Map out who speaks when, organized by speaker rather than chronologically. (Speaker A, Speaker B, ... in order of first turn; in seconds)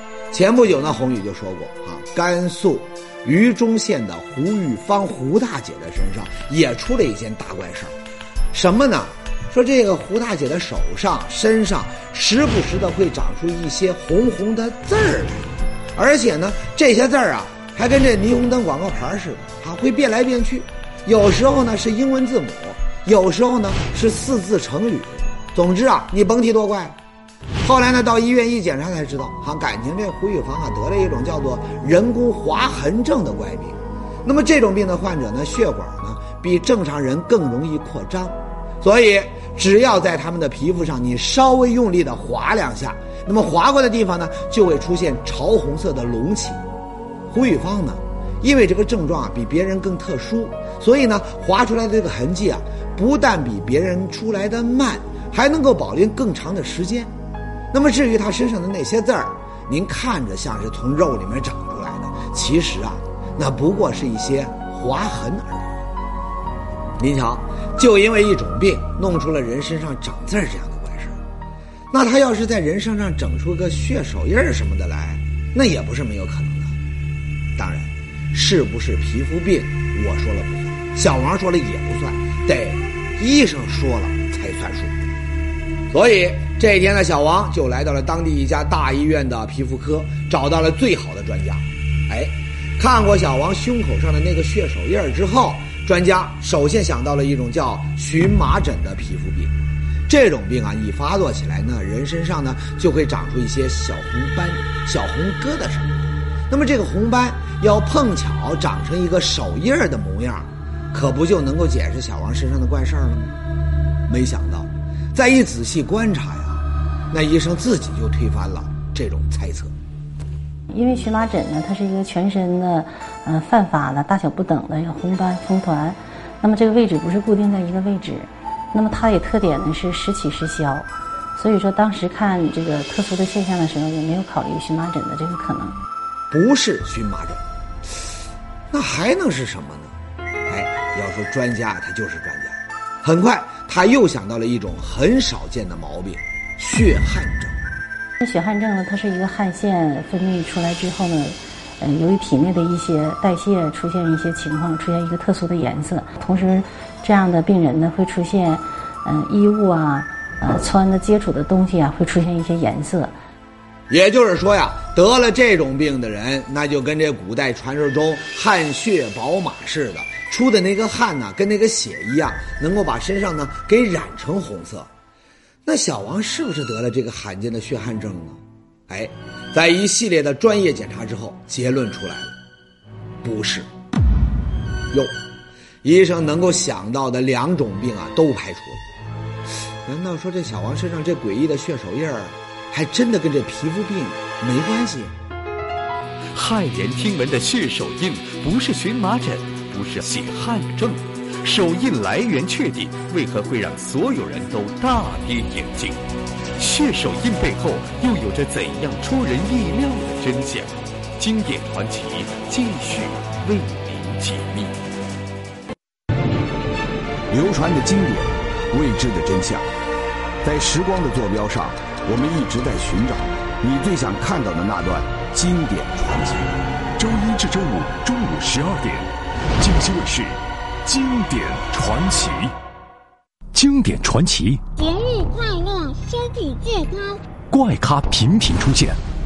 Speaker A: 0.3-7.9, 8.5-27.0, 27.6-46.6, 47.3-57.1, 57.7-65.8, 67.0-71.2, 71.9-76.7, 77.6-85.0, 85.9-113.3, 114.1-119.7, 136.3-137.4, 138.7-140.0, 140.5-147.6, 163.9-174.9, 175.7-182.4, 183.2-183.7, 185.8-188.8, 189.8-195.1
Speaker B: 120.7-135.8, 148.2-163.2
Speaker C: 196.3-206.0, 206.6-214.8
Speaker D: 217.3-219.7, 220.4-226.5
Speaker E: 227.0-232.5, 233.5-234.6, 237.5-239.0
Speaker F: 234.8-237.2